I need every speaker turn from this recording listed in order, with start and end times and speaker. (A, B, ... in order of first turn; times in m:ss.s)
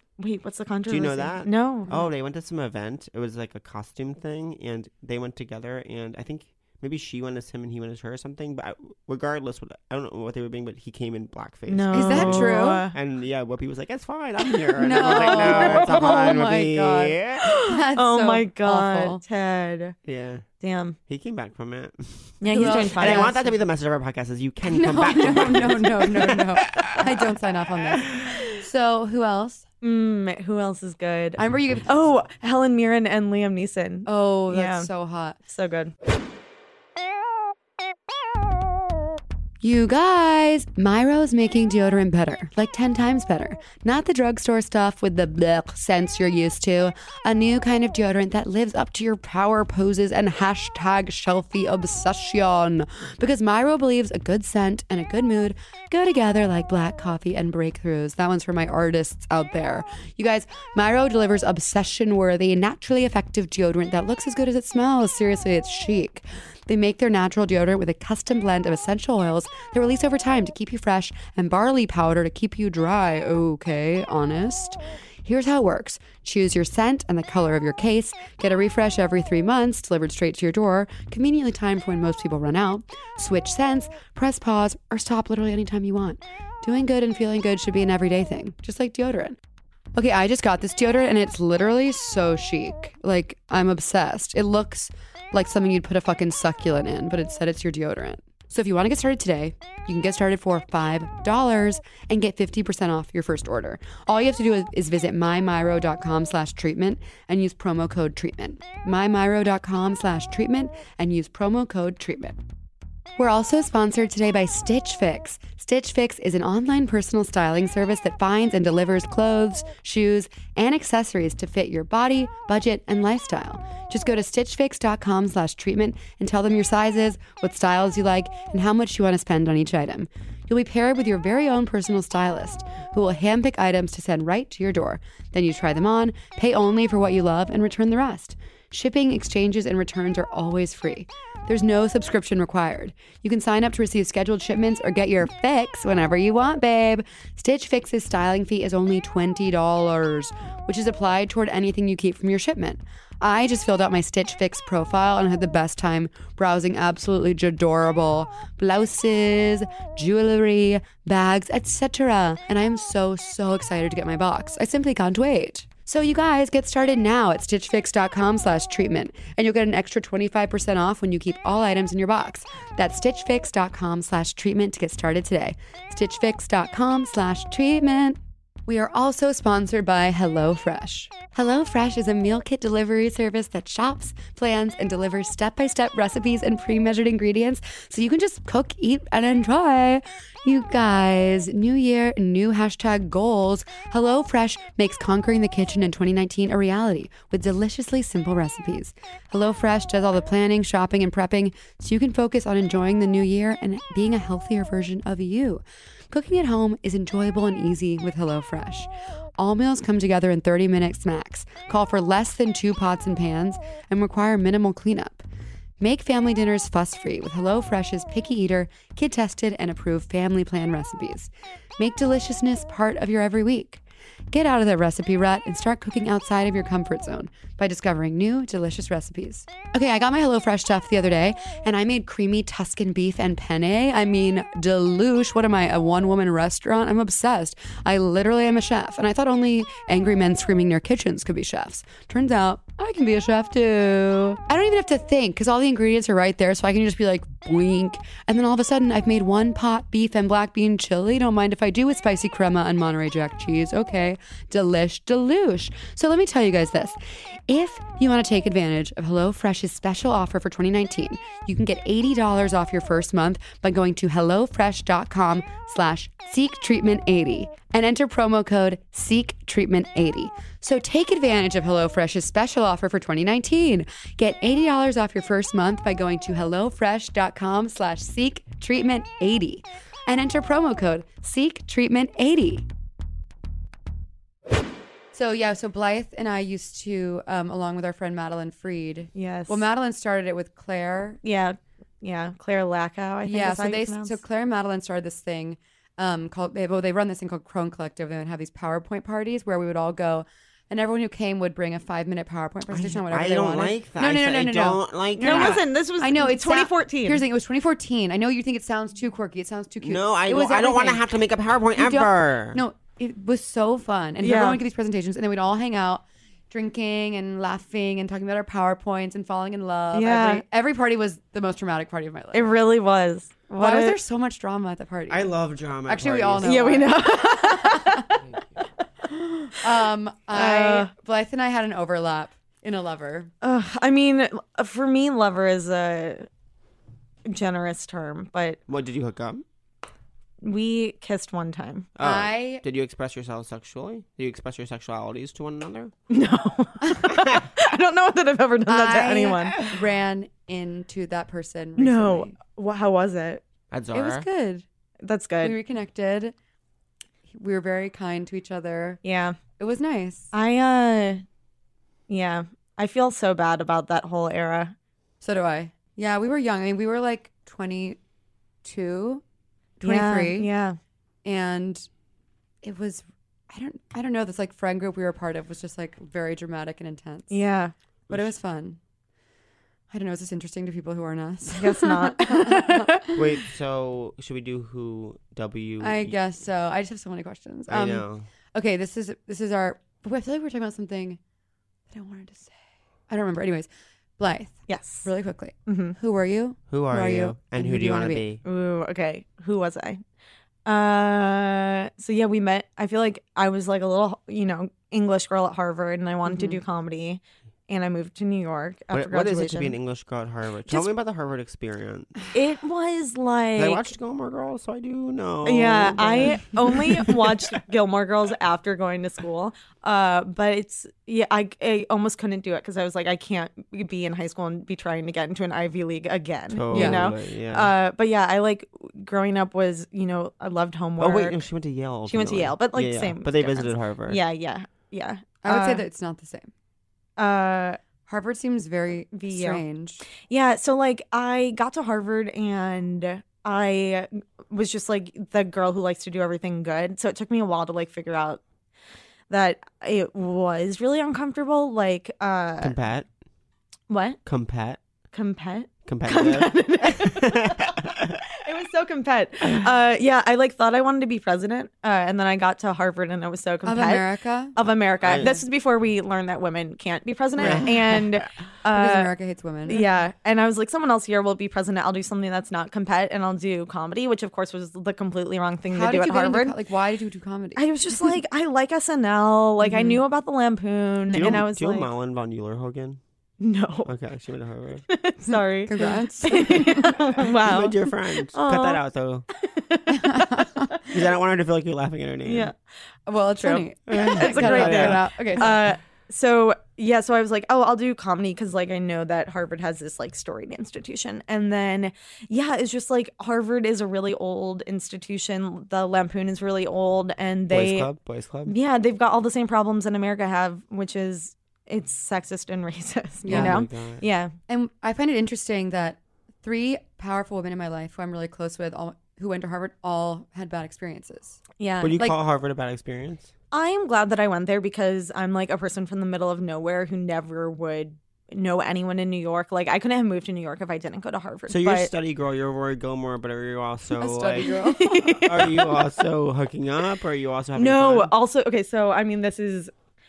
0:00.2-0:02.0 A
0:00.9-0:17.4 B
0:11.7-0:12.9 A
0:11.9-0:12.8 C
0:14.8-0:19.2 C
0:14.8-0:16.4 A
0:17.4-0:20.0 A
0:20.0-0:20.4 B
0:20.6-0:21.0 A
0:21.1-0:27.0 B
0:22.4-0:23.5 A
0:22.5-0:23.5 C
0:24.6-0:29.6 C
0:28.0-0:28.3 B
0:29.8-0:34.9 A
0:31.4-0:31.9 C
0:34.0-0:35.4 C
0:35.5-0:35.9 A
0:39.6-1:29.4 C
1:29.9-1:52.4 C
1:53.2-3:35.2 C
3:35.8-4:17.0 C
4:17.5-4:42.6 C
4:45.1-4:51.2 C
4:49.2-4:49.6 A
4:51.2-4:54.2 A
4:53.2-5:11.0 C
5:02.7-5:05.7 B
5:05.2-5:07.2 A
5:09.8-5:12.6 B
5:11.8-5:22.5 C
5:14.2-5:14.6 A
5:19.9-5:20.4 A
5:22.3-5:24.0 A
5:23.6-5:25.3 C
5:25.1-5:26.9 B
5:25.9-5:28.0 C
5:26.4-5:28.1 A
5:29.4-5:33.3 C
5:30.3-5:30.9 A
5:33.4-5:36.2 A
5:37.3-5:38.6 A
5:38.7-5:39.4 B
5:40.4-5:41.9 A
5:42.0-5:45.9 B
5:42.0-5:42.6 C
5:46.1-5:49.6 A
5:48.7-5:52.3 C
5:51.8-5:53.4 A
5:53.7-5:54.2 B
5:53.9-5:54.6 C
5:55.0-5:55.6 A
5:55.4-5:56.3 C
5:57.3-5:59.0 C
5:59.0-5:59.4 A
5:59.6-6:00.3 C
6:00.3-6:01.2 A
6:02.1-6:04.7 A
6:05.2-6:08.0 C
6:08.6-6:09.2 C
6:09.8-6:10.5 C
6:09.8-6:10.8 A
6:11.2-6:11.9 C
6:12.6-6:17.4 C
6:17.3-6:17.7 A
6:18.1-6:18.8 C
6:19.9-6:23.1 C
6:21.6-6:23.1 A
6:23.1-6:26.2 B
6:25.8-6:31.2 C
6:27.7-6:28.3 B
6:31.9-6:32.5 C
6:33.1-6:38.2 C
6:34.7-6:35.1 A
6:35.7-6:36.0 A
6:36.7-6:38.4 B
6:38.4-6:40.0 A
6:40.6-6:49.7 A
6:46.2-6:46.6 C
6:48.9-6:52.3 B
6:52.3-6:53.8 A
6:53.6-6:57.4 B
6:55.4-7:11.4 A
7:06.5-7:07.7 B
7:06.7-7:07.0 C
7:11.0-7:14.2 B
7:12.1-7:15.8 A
7:15.4-7:16.5 C
7:17.2-7:17.8 A
7:18.1-7:20.0 C
7:19.1-7:19.6 A
7:20.3-7:28.4 A
7:29.3-7:32.8 A
7:32.6-7:33.1 B
7:33.9-7:34.2 A
7:34.2-7:34.8 B
7:35.1-7:37.8 A
7:35.8-7:38.2 B
7:38.4-7:49.1 A
7:43.6-7:44.6 C
7:45.0-7:45.4 B
7:47.4-7:48.3 B
7:48.7-7:49.8 C
7:49.7-7:56.5 A
7:55.7-7:58.1 C
7:57.6-8:01.9 A
7:59.6-8:00.0 C
8:01.1-8:03.0 B
8:03.4-8:03.9 A
8:03.8-8:04.8 B
8:04.9-8:08.8 A
8:05.3-8:06.9 C
8:07.2-8:09.3 B
8:09.4-8:10.3 A
8:09.9-8:10.7 C
8:10.9-8:12.5 B
8:12.2-8:12.5 A
8:13.1-8:15.6 C
8:13.4-8:27.9 A
8:13.9-8:15.6 B
8:27.5-8:28.6 B
8:28.5-8:34.3 A
8:33.2-8:33.6 C
8:33.3-8:34.0 B
8:34.5-8:41.4 C
8:41.6-8:42.0 A
8:41.8-8:43.3 B
8:43.5-8:51.9 A
8:51.5-8:58.1 B
8:54.0-8:55.2 C
8:54.5-8:55.8 A
8:57.6-8:59.7 A